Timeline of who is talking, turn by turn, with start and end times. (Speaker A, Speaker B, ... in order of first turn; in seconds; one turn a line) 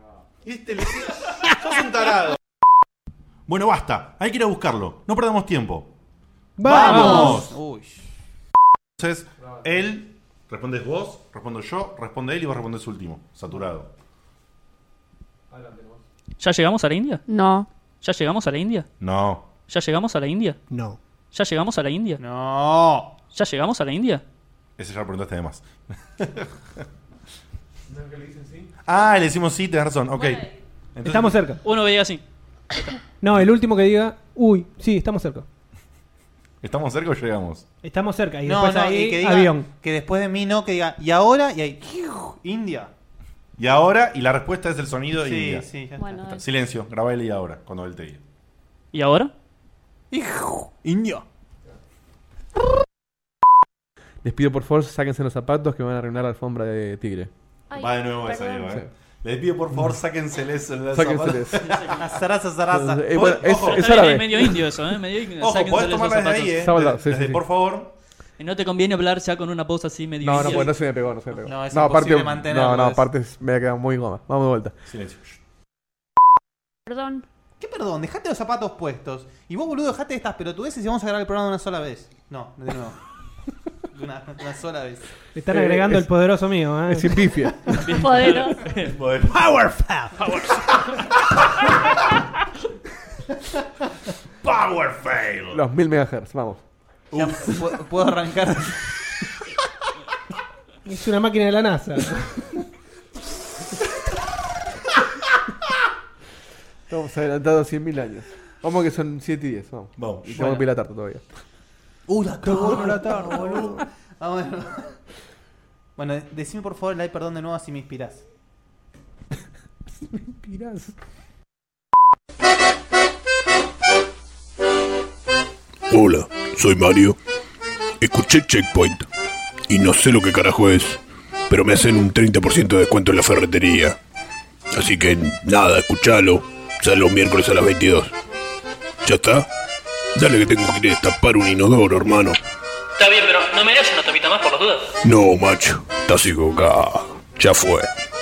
Speaker A: 0.4-2.4
Speaker A: 3.5-5.9
Speaker B: 6.6-7.3
Speaker A: 6.6-7.5
Speaker C: 6.6-8.0
Speaker D: 6.9-7.3
Speaker A: 9.0-13.9
Speaker E: 15.5-16.0
Speaker F: 16.4-17.2
Speaker D: 17.3-17.7
Speaker F: 18.0-18.9
Speaker A: 19.0-19.4
Speaker F: 19.7-20.6
Speaker B: 20.7-21.0
Speaker F: 21.3-22.2
Speaker C: 22.2-23.1
Speaker F: 23.3-24.2
Speaker A: 24.8-26.8
Speaker E: 27.9-28.7
Speaker A: 28.9-31.4
Speaker B: 31.0-31.6
Speaker F: 31.6-32.2
Speaker B: 33.2-35.5
Speaker A: 36.6-37.6
Speaker B: 37.8-39.7
Speaker C: 38.4-42.9
Speaker A: 43.6-45.6
Speaker C: 45.2-46.4
Speaker D: 46.0-46.4
Speaker A: 46.4-48.2
Speaker F: 48.9-49.3
Speaker C: 50.1-51.2
Speaker E: 54.2-57.3
Speaker D: 57.7-58.8
Speaker A: 57.7-62.0
Speaker E: 60.9-61.7
Speaker C: 61.9-63.1
Speaker E: 62.7-64.6
Speaker A: 63.1-63.9
Speaker F: 63.6-66.7
Speaker A: 65.4-67.9
Speaker E: 66.6-67.4
Speaker F: 68.4-70.7
Speaker E: 70.2-74.8
Speaker C: 71.4-73.0
Speaker A: 74.9-75.3
Speaker D: 76.9-77.2
Speaker C: 77.6-83.0
Speaker C: 83.9-85.0
Speaker B: 85.3-87.2
Speaker E: 85.5-86.0
Speaker E: 86.9-88.0
Speaker F: 87.8-88.9
Speaker D: 87.9-88.7
Speaker A: 88.9-89.4
Speaker B: 89.3-90.2
Speaker A: 94.4-95.6
Speaker E: 95.5-96.6
Speaker A: 97.1-97.5
Speaker C: 97.1-98.8
Speaker B: 100.8-102.3
Speaker E: 106.9-111.3
Speaker A: 110.0-110.6
Speaker C: 112.1-115.0
Speaker B: 112.5-113.4
Speaker C: 116.0-118.2
Speaker E: 120.4-120.8
Speaker G: 125.9-127.2
Speaker G: 128.0-129.1
Speaker G: 129.7-134.0
Speaker G: 134.7-138.1
Speaker G: 139.0-139.5
Speaker G: 140.1-142.4
Speaker F: 143.0-144.9
Speaker G: 145.0-147.9